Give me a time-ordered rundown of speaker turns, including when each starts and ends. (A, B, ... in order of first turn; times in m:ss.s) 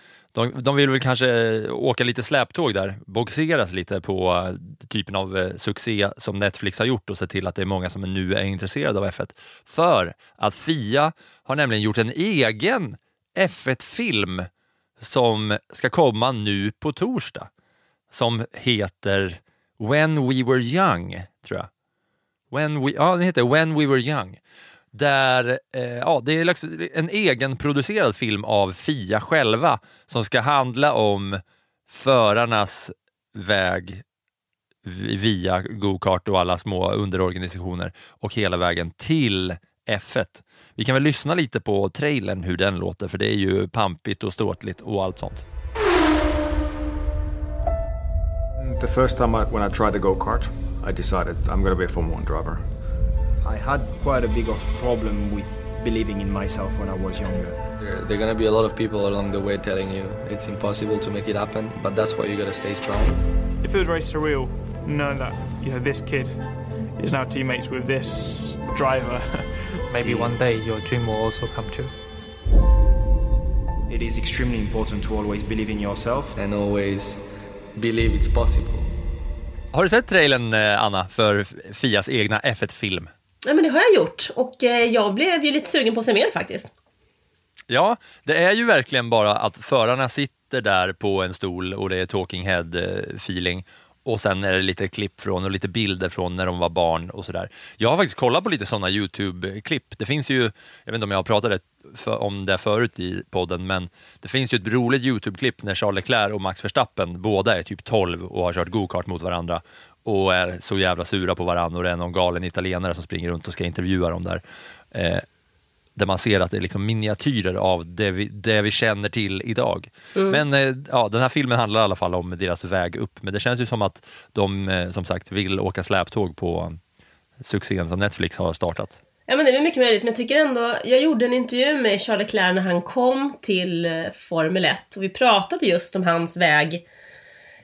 0:00.3-0:17.5 A
0:18.1-0:21.7 A
0:22.5-0:24.4 A
0:24.9-0:34.0 A
0:34.8-0:45.5 A
0:48.6-0:52.6 B
0:53.4-0:57.6 C
0:57.8-1:03.2 D
1:03.6-1:06.4 E
1:07.0-1:09.6 E
1:09.9-1:11.9 F
1:10.0-1:10.3 D
1:13.9-1:16.4 C
1:16.4-1:18.9 D
1:19.7-1:23.1 A
1:23.5-1:26.7 G
1:27.7-1:55.2 A
1:56.0-2:06.8 A
2:00.2-2:00.4 G
2:07.4-2:09.0 A
2:09.3-2:16.8 G